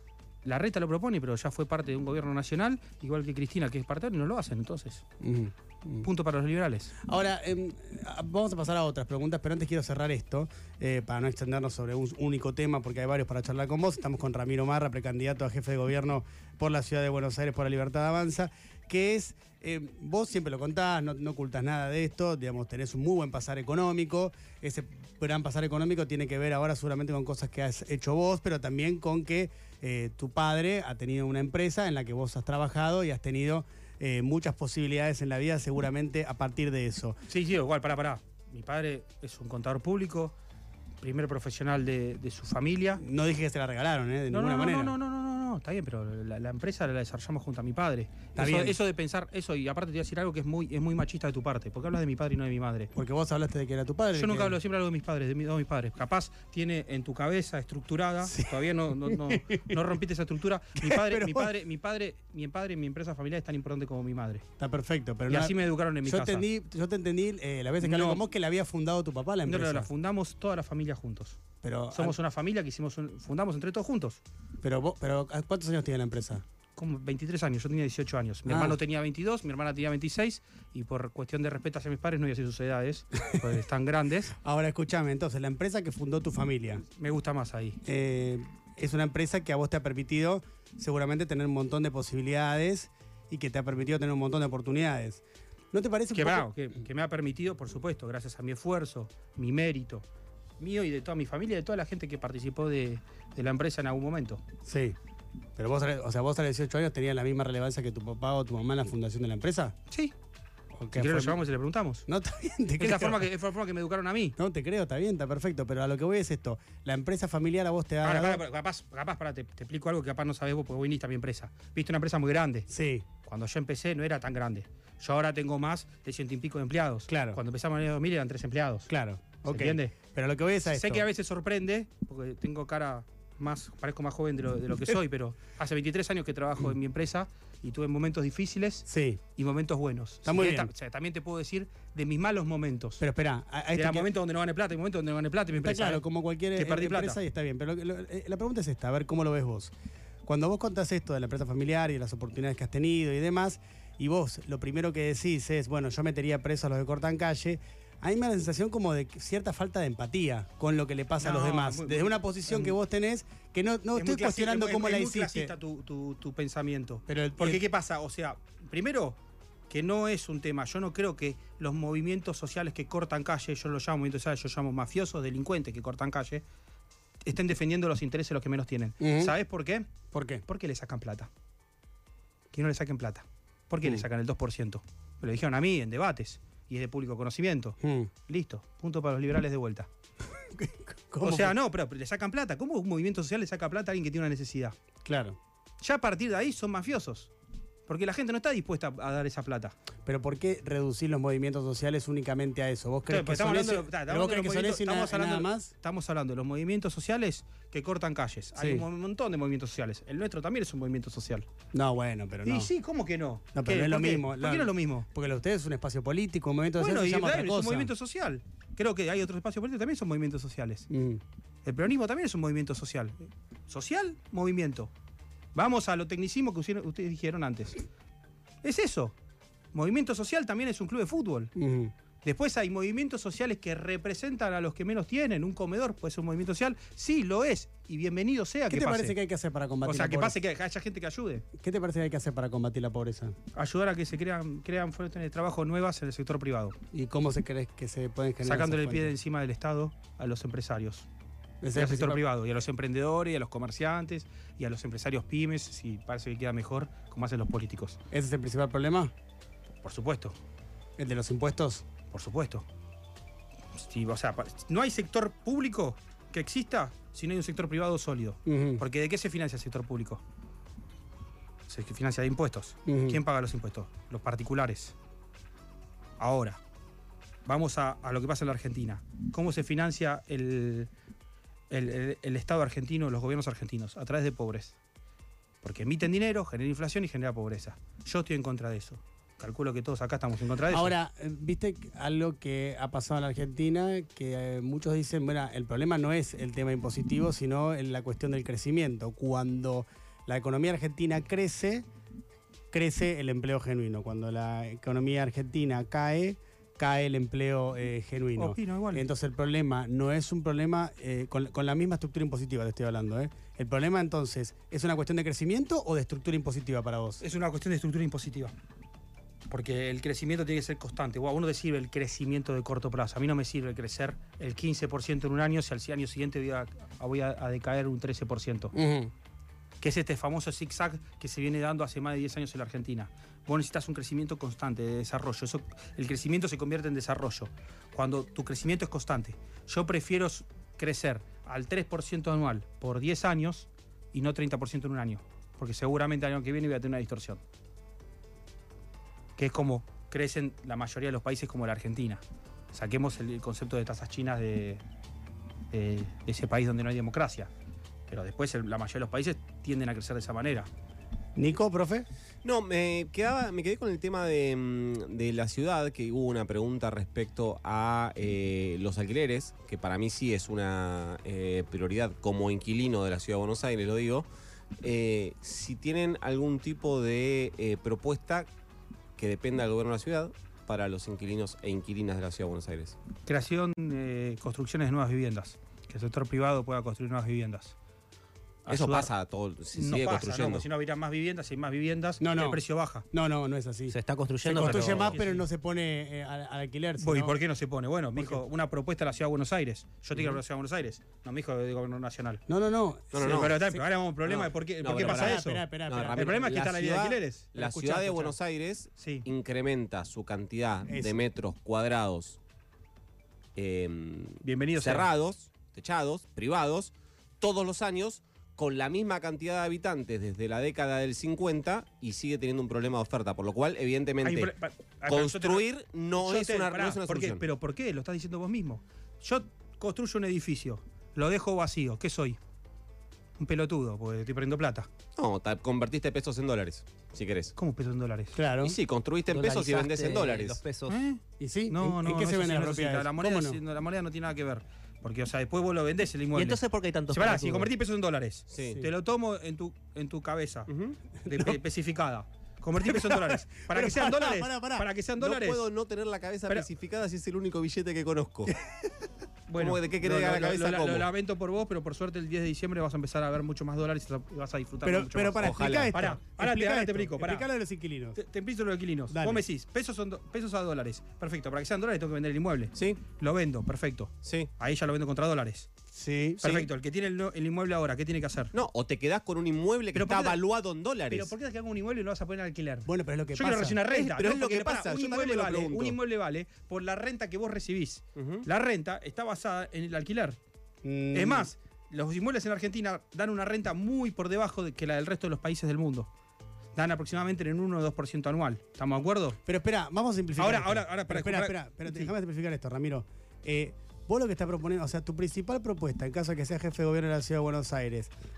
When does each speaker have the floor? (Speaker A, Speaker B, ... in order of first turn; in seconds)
Speaker A: 0.5-5.0, 6.0-6.9, 37.3-40.4, 41.0-43.0, 44.3-52.9, 54.1-64.4, 65.3-66.5, 67.8-68.2, 69.5-71.4, 71.9-74.2, 76.8-84.3, 86.9-87.8, 96.1-100.0, 100.6-104.4, 110.9-112.1, 112.8-114.4, 118.0-122.7, 123.2-128.9, 129.4-129.9, 130.7-143.0, 143.7-146.0, 146.6-147.2, 161.2-162.8, 163.9-169.2, 169.7-176.4, 177.2-179.9, 180.5-181.3, 182.5-187.8, 188.3-189.9, 191.2-194.8, 195.8-197.3, 197.9-199.8, 203.1-211.5, 212.4-215.1, 216.8-220.9, 221.7-224.9, 225.6-227.8, 228.6-229.1, 229.7-231.5, 232.2-239.2, 239.8-241.4, 243.5-246.8, 248.4-251.1, 251.8-258.0, 259.8-260.4, 262.1-262.6, 263.8-270.2, 271.7-274.9, 276.2-276.6, 277.5-280.9, 281.7-284.8, 285.6-290.9, 308.4-309.1, 317.2-318.5, 319.5-328.7, 329.8-347.4, 349.4-354.8, 355.7-357.5, 358.1-360.7, 383.3-387.8, 388.6-389.1, 389.7-393.1, 394.5-395.4, 397.0-402.4, 403.2-408.3, 409.0-409.3, 414.4-415.1, 424.2-432.4, 433.4-434.9, 437.6-438.4, 440.9-450.7, 451.2-455.6, 459.5-467.5, 468.2-475.7, 476.4-478.5, 479.9-480.4, 481.1-490.4, 491.1-496.1, 496.8-499.4, 500.4-502.1
Speaker B: 5.2-6.1, 7.0-37.2, 43.0-45.0, 48.4-48.8, 52.9-54.6, 58.2-59.8, 60.8-61.5, 64.6-69.9, 71.6-72.2, 74.6-76.4, 78.5-78.8, 84.3-86.8, 87.8-96.5, 104.7-105.0, 105.6-109.8, 110.7-111.4, 112.1-113.3, 114.4-118.4, 122.7-123.0, 127.1-127.4, 128.9-131.1, 138.9-139.2, 140.2-140.7, 143.0-144.1, 145.6-149.7, 150.2-165.5, 167.1-167.6, 179.0-179.3, 180.1-180.4, 187.8-188.1, 190.4-191.6, 195.1-195.4, 200.1-205.7, 208.6-208.8, 211.7-212.7, 213.5-217.9, 220.9-221.2, 231.6-231.9, 238.7-240.4, 241.6-243.4, 246.9-249.1, 251.6-252.2, 258.1-259.1, 261.0-261.9, 268.5-268.8, 272.9-273.2, 290.7-301.9, 302.7-317.2, 328.7-329.1, 361.4-362.1, 392.2-392.6, 393.1-397.4, 398.2-398.4, 402.5-403.8, 405.0-406.6, 410.9-411.2, 438.4-438.8, 441.4-443.6, 448.6-448.9, 451.2-451.6, 452.8-454.9, 458.6-458.9, 464.8-468.2, 469.1-469.4, 475.9-476.6, 482.9-483.9, 490.8-491.5, 499.4-508.1
Speaker C: 362.4-374.3, 374.8-378.5, 379.2-383.0, 388.7-390.6, 403.1-403.5, 404.2-412.4, 413.6-424.5, 425.1-427.4, 435.2-437.5, 438.6-440.6, 448.5-448.8, 450.7-451.0, 455.2-458.5, 459.6-461.1, 465.4-465.9, 472.7-473.0, 474.2-474.5, 478.5-481.3, 483.9-486.0, 488.2-488.5
Speaker D: 393.9-395.2, 439.3-441.0, 446.4-447.7